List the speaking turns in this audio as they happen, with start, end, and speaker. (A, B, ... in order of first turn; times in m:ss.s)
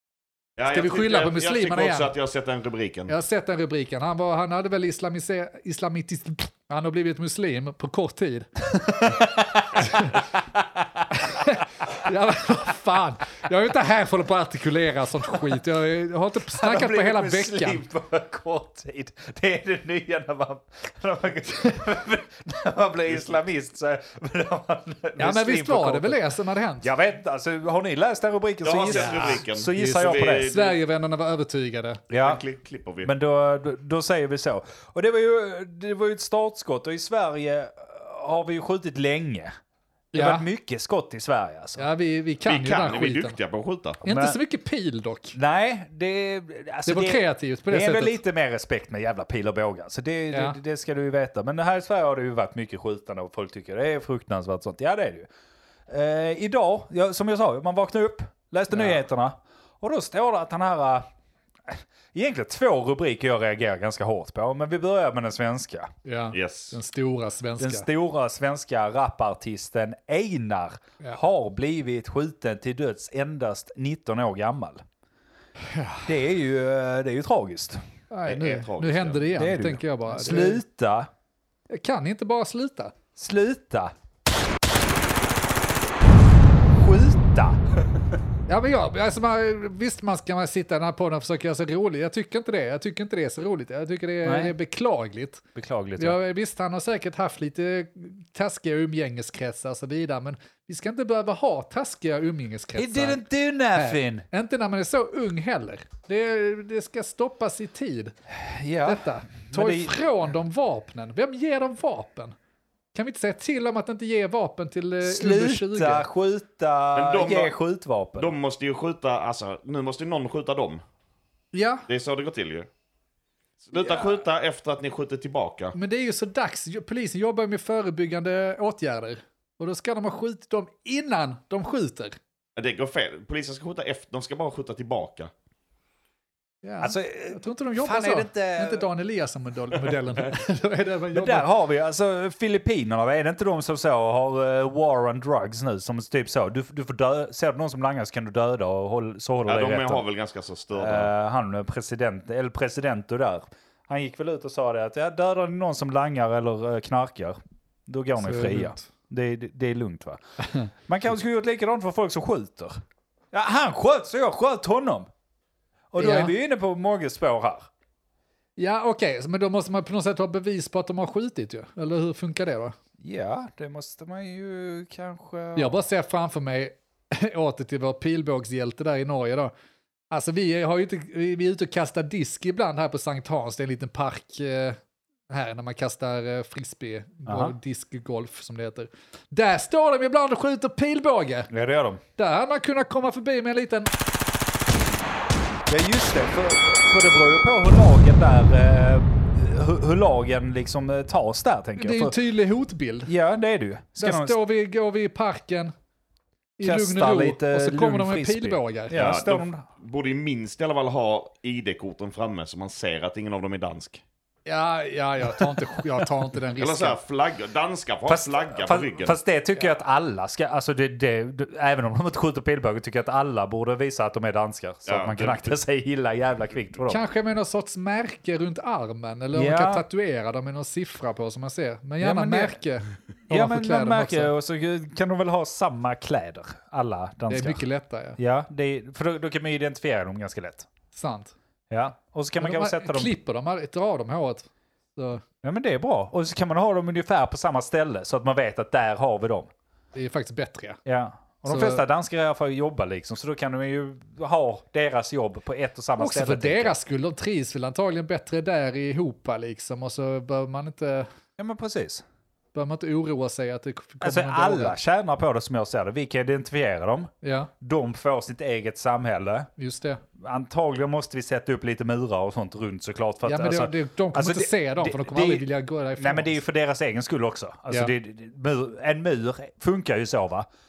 0:00.6-0:03.1 A
0:00.7-0:02.1 B
0:03.1-0:09.2 B
0:09.1-0:10.2 C
0:09.7-0:10.2 B
0:11.2-0:17.8 B
0:16.6-0:26.2 C
0:25.2-0:26.9 B
0:26.8-0:30.5 C
0:28.6-0:30.8 A
0:28.9-0:32.0 B
0:32.1-0:32.4 C
0:32.2-0:33.1 A
0:33.0-0:39.5 C
0:40.1-0:41.8 C
0:40.1-0:40.4 B
0:41.8-0:43.4 B
0:42.4-0:44.0 A
0:44.0-0:45.4 B
0:44.1-0:44.4 C
0:45.3-0:55.3 C
0:46.8-0:48.2 B
0:50.3-0:50.6 B
0:55.9-1:01.0 C
0:58.7-0:59.0 B
1:01.7-1:05.9 C
1:06.0-1:07.8 B
1:06.3-1:06.8 A
1:07.6-1:14.8 C
1:15.7-1:16.0 B
1:16.0-1:17.8 C
1:18.1-1:20.6 B
1:18.2-1:19.3 A
1:19.3-1:21.1 C
1:21.7-1:22.9 B
1:23.2-1:23.9 C
1:26.7-1:27.6 C
1:28.5-1:35.4 B
1:34.2-1:34.5 C
1:35.5-1:36.2 C
1:36.0-1:48.1 B
1:42.8-1:44.2 C
1:48.3-1:49.9 C
1:48.8-1:52.3 B
1:52.9-1:56.1 B
1:55.0-1:58.3 C
1:56.9-1:57.5 A
1:58.2-2:00.8 A
2:01.5-2:01.8 B
2:01.9-2:02.7 A
2:03.6-2:05.8 A
2:05.8-2:12.2 B
2:12.6-2:15.3 A
2:16.6-2:21.5 B
2:16.8-2:18.8 C
2:21.1-2:30.0 C
2:29.4-2:31.1 A
2:30.7-2:40.2 C
2:38.2-2:38.8 B
2:40.8-2:42.8 C
2:43.3-2:45.1 C
2:45.9-2:47.7 C
2:46.0-2:46.3 B
2:48.6-2:52.7 B
2:53.0-2:55.8 C
2:55.6-2:59.5 B
3:00.1-3:04.8 B
3:05.3-3:11.5 B
3:07.2-3:07.5 C
3:11.5-3:12.0 C
3:12.2-3:13.9 B
3:15.7-3:22.1 C
3:21.8-3:23.1 B
3:23.0-3:24.4 C
3:24.0-3:25.7 B
3:26.6-3:29.0 B
3:26.6-3:29.6 C
3:28.9-3:34.0 A
3:34.4-3:37.0 B
3:36.6-3:39.2 A
3:38.1-3:47.0 C
3:44.8-3:45.6 A
3:46.9-3:54.3 B
3:49.3-3:49.8 C
3:52.0-3:52.6 C
3:53.3-3:57.6 C
3:57.3-3:58.2 B
3:58.2-4:00.7 C
4:00.9-4:01.3 B
4:01.7-4:03.1 C
4:02.4-4:05.2 B
4:05.4-4:09.5 C
4:09.9-4:10.8 B
4:10.8-4:16.7 C
4:11.5-4:11.8 B
4:16.0-4:21.1 B
4:21.4-4:22.0 C
4:22.5-4:24.8 B
4:24.0-4:27.1 C
4:27.2-4:27.5 B
4:27.6-4:29.5 C
4:29.6-4:30.0 B
4:30.2-4:35.4 C
4:33.2-4:36.4 B
4:36.0-4:40.5 C